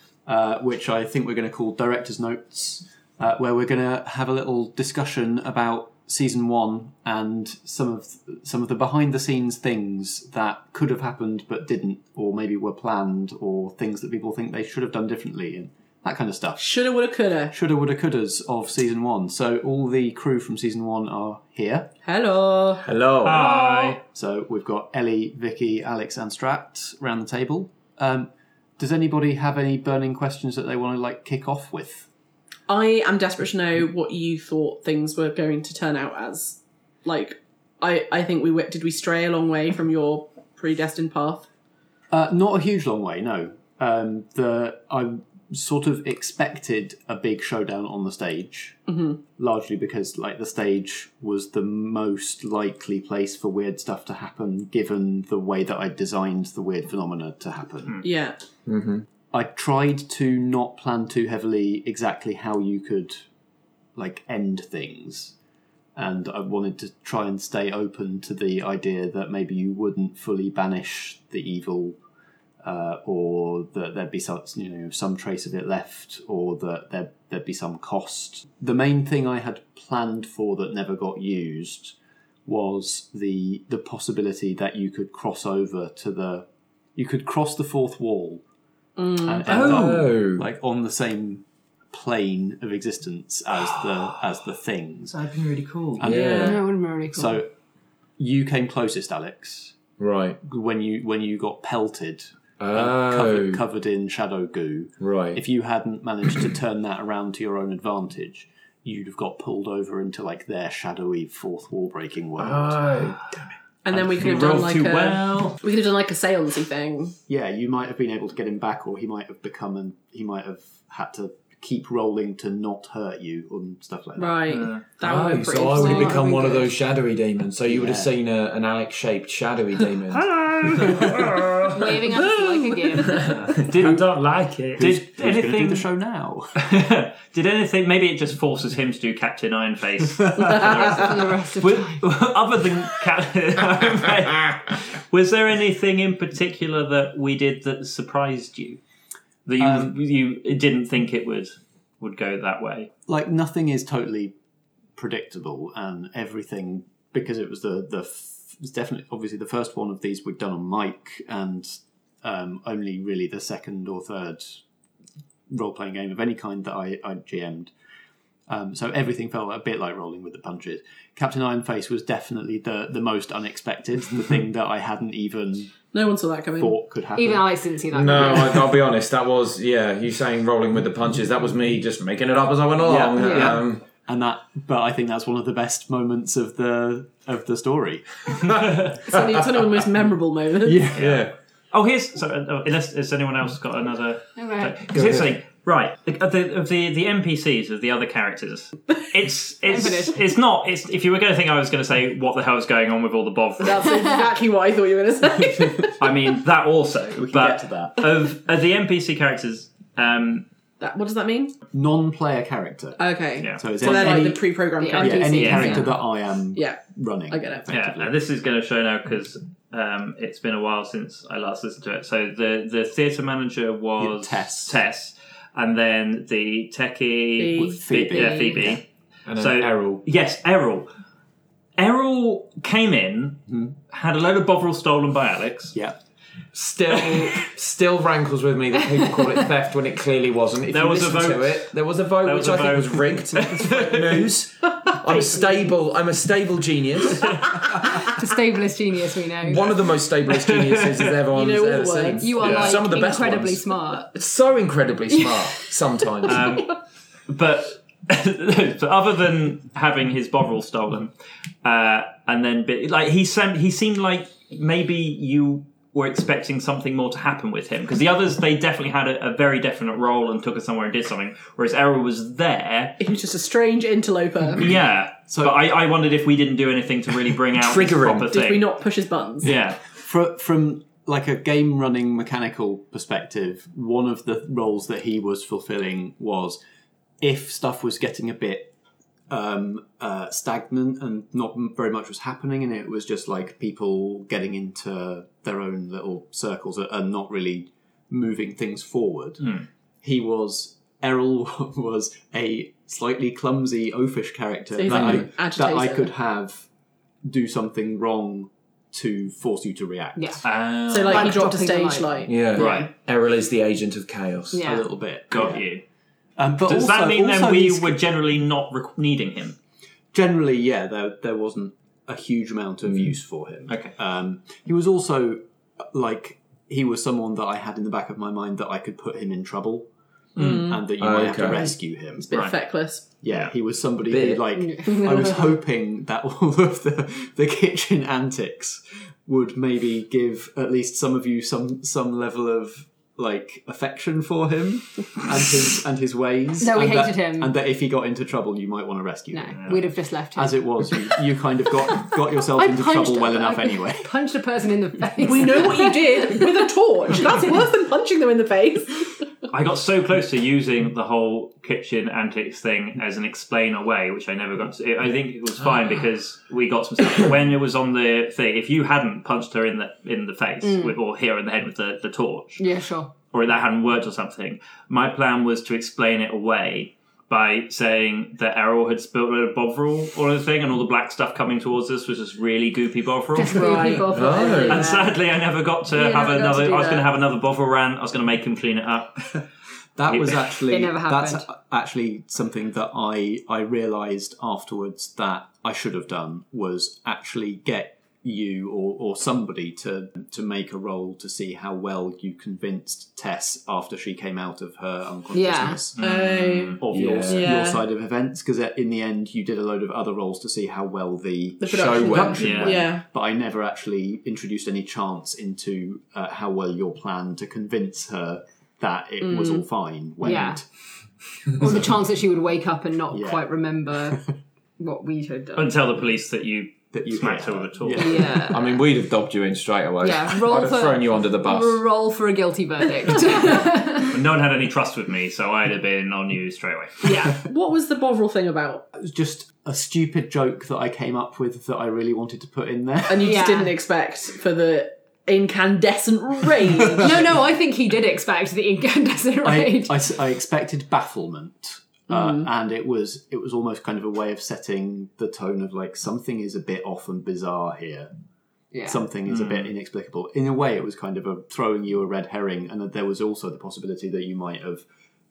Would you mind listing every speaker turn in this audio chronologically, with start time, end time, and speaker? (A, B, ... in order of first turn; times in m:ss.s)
0:00.2-0:16.7 A
0:16.6-0:17.5 B
0:17.5-0:21.9 A
0:22.0-0:24.0 B
0:22.8-0:23.4 C
0:23.2-0:24.0 D
0:24.1-0:32.1 A
0:32.7-0:41.5 B
0:42.1-0:48.8 A
0:48.9-0:49.2 B
0:49.4-0:58.0 A
0:58.0-0:58.4 B
0:58.6-0:59.0 C
0:59.3-1:03.2 A
1:04.0-1:05.3 A
1:06.0-1:12.0 A
1:12.6-1:28.4 A
1:29.0-1:29.8 B
1:29.2-1:35.2 A
1:29.5-1:30.4 C
1:35.1-1:36.0 D
1:36.0-1:36.6 A
1:36.0-1:36.5 C
1:36.1-1:36.6 B
1:36.4-1:37.4 E
1:37.1-1:37.5 A
1:38.2-1:39.8 A
1:40.0-1:40.4 C
1:40.4-1:52.9 A
1:42.6-1:43.6 C
1:45.0-1:45.4 C
1:52.4-1:53.5 C
1:53.8-1:57.2 B
1:53.9-1:55.6 D
1:57.3-2:04.4 A
2:04.2-2:06.7 B
2:04.5-2:04.8 D
2:05.0-2:10.3 C
2:05.7-2:06.2 E
2:07.7-2:08.1 A
2:10.1-2:15.8 D
2:10.8-2:11.1 C
2:11.7-2:13.4 E
2:14.8-2:16.6 A
2:16.6-2:28.8 D
2:20.4-2:21.1 B
2:20.6-2:22.0 E
2:29.4-2:32.9 D
2:29.6-2:29.9 A
2:33.1-2:34.3 A
2:35.0-2:44.6 A
2:45.5-2:47.7 A
2:48.5-2:55.7 A
2:55.9-2:56.7 B
2:56.6-2:57.5 A
2:57.1-2:58.7 E
2:57.9-3:03.8 C
3:02.8-3:08.7 A
3:03.2-3:03.5 E
3:08.4-3:09.3 C
3:09.0-3:10.9 B
3:10.6-3:11.0 A
3:10.6-3:11.3 C
3:11.0-3:24.0 D
3:14.4-3:14.8 E
3:14.9-3:15.3 C
3:19.6-3:20.2 E
3:23.6-3:26.2 B
3:26.0-3:30.4 D
3:27.2-3:28.1 A
3:30.8-3:31.5 B
3:31.7-3:34.4 A
3:33.0-3:35.8 B
3:33.4-3:34.1 D
3:34.8-3:35.9 E
3:34.9-3:38.1 A
3:35.4-3:35.8 D
3:36.5-3:37.6 B
3:37.7-3:48.8 D
3:44.0-3:44.8 A
3:47.4-3:48.6 B
3:47.5-3:48.8 A
3:49.3-3:50.0 C
3:49.4-3:50.9 D
3:51.8-3:55.8 D
3:56.5-4:07.4 C
4:00.7-4:04.3 D
4:07.9-4:09.6 E
4:09.4-4:16.6 C
4:10.3-4:11.1 D
4:11.3-4:12.6 B
4:12.2-4:14.1 E
4:16.2-4:21.1 D
4:21.6-4:33.0 D
4:33.0-4:34.6 B
4:34.6-4:38.7 D
4:35.3-4:35.6 A
4:37.6-4:38.3 C
4:38.3-4:39.5 B
4:39.4-4:39.8 D
4:39.9-4:46.6 A
4:47.2-4:48.7 A
4:49.3-5:06.7 A
5:04.7-5:06.1 B
5:04.8-5:05.3 C
5:07.2-5:10.4 A
5:10.2-5:10.4 E
5:10.4-5:11.4 D
5:10.9-5:12.9 B
5:11.0-5:12.1 E
5:12.3-5:14.6 C
5:12.5-5:12.9 D
5:14.5-5:14.9 E
5:14.6-5:15.6 A
5:15.3-5:15.8 D
5:16.4-5:18.0 A
5:16.6-5:19.6 D
5:20.1-5:29.9 A
5:23.7-5:23.9 D
5:30.4-5:30.7 D
5:30.4-5:30.8 B
5:30.4-5:32.5 A
5:31.0-5:31.7 C
5:32.2-5:33.0 B
5:33.2-5:49.8 A
5:34.1-5:34.4 C
5:34.6-5:35.3 E
5:34.9-5:35.2 B
5:46.6-5:47.5 E
5:49.3-5:51.1 E
5:50.3-5:54.1 A
5:52.4-5:56.5 E
5:55.2-5:59.1 B
5:59.5-6:12.6 D
6:10.6-6:10.9 E
6:12.6-6:13.1 E
6:13.3-6:24.0 D
6:23.3-6:25.2 E
6:23.4-6:24.9 B
6:24.1-6:24.9 C
6:24.7-6:29.4 D
6:26.0-6:27.0 E
6:26.1-6:26.6 B
6:30.0-6:46.0 A
6:30.1-6:30.6 D
6:30.7-6:31.5 E
6:45.3-6:45.8 E
6:45.9-6:46.8 D
6:46.0-6:47.8 B
6:46.8-7:00.6 A
6:46.9-6:47.5 C
6:51.6-6:53.0 B
6:51.7-6:52.7 C
6:52.4-6:52.8 D
6:59.2-6:59.6 B
7:00.2-7:00.6 E
7:01.6-7:04.2 E
7:03.1-7:03.5 A
7:04.8-7:05.8 E
7:05.6-7:08.3 D
7:06.9-7:08.5 A
7:08.0-7:08.6 E
7:08.4-7:11.8 C
7:10.0-7:14.1 E
7:14.0-7:17.1 D
7:17.0-7:17.4 E
7:17.4-7:18.8 B
7:18.9-7:23.4 A
7:23.1-7:27.2 B
7:23.2-7:23.7 E
7:27.0-7:27.2 A
7:27.0-7:30.0 E
7:29.4-7:38.1 A
7:32.1-7:32.5 B
7:38.7-7:39.0 E
7:38.8-7:44.8 A
7:39.3-7:39.7 D